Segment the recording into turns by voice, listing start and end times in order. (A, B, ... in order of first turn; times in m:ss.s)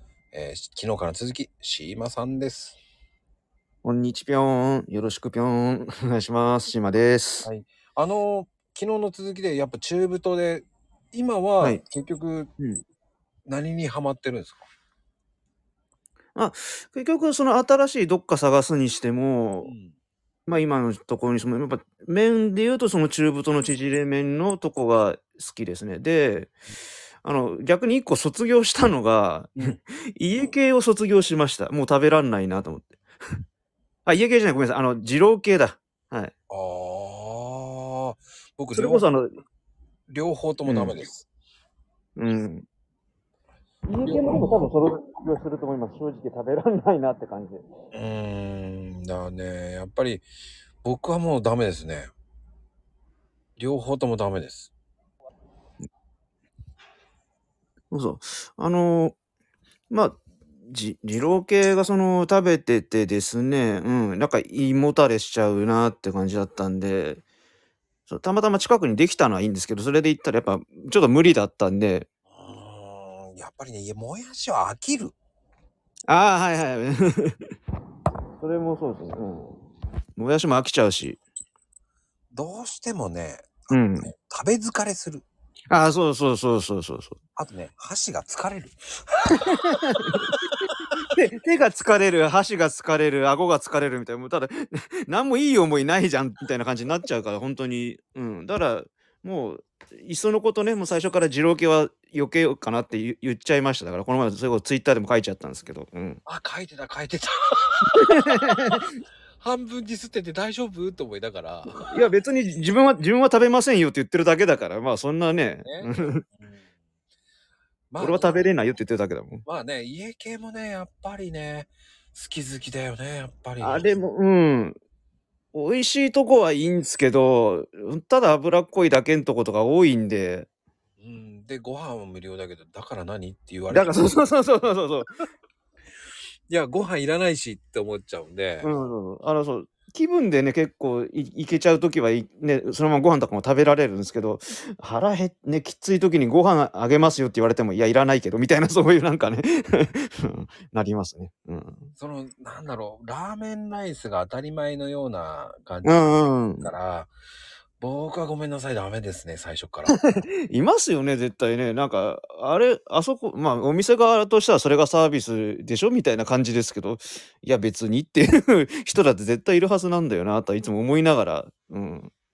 0:00.3-0:02.8 A
0:03.8-0:07.5 B
0:07.4-0:12.5 A
0:13.5-0:14.6 A
0:16.3-0:19.7 B
0:19.6-0:19.9 A
0:20.4-0:26.5 B
0:27.2-0:33.0 B
0:34.0-0:36.3 B
0:36.5-0:39.1 A
0:38.7-0:39.3 B
0:40.1-0:41.3 A
0:40.7-0:41.0 B
0:42.2-0:42.6 B
0:43.9-0:47.6 B
0:44.0-0:44.6 A
0:47.9-0:50.2 A
0:50.8-0:52.1 A
0:53.6-0:54.7 A
0:57.9-0:59.2 B
0:59.9-1:07.2 B
1:08.1-1:12.1 B
1:12.3-1:15.1 A
1:16.1-1:17.4 B
1:18.4-1:19.6 B
1:20.2-1:21.2 B
1:22.3-1:25.2 A
1:23.7-1:24.1 B
1:25.7-1:27.2 B
1:27.4-1:30.3 A
1:29.5-1:30.3 B
1:31.0-1:46.2 B
1:46.2-1:48.8 A
1:48.0-1:48.9 B
1:49.4-1:51.9 A
1:51.8-1:56.2 B
1:55.6-1:56.6 A
1:57.9-1:58.5 A
1:58.0-1:59.4 B
1:59.4-2:04.0 A
2:03.6-2:04.8 B
2:05.5-2:10.5 B
2:11.0-2:14.2 A
2:13.7-2:15.1 B
2:16.5-2:18.7 A
2:18.6-2:31.9 B
2:32.0-2:37.1 A
2:35.8-2:36.7 B
2:37.8-2:40.0 A
2:39.9-2:52.1 B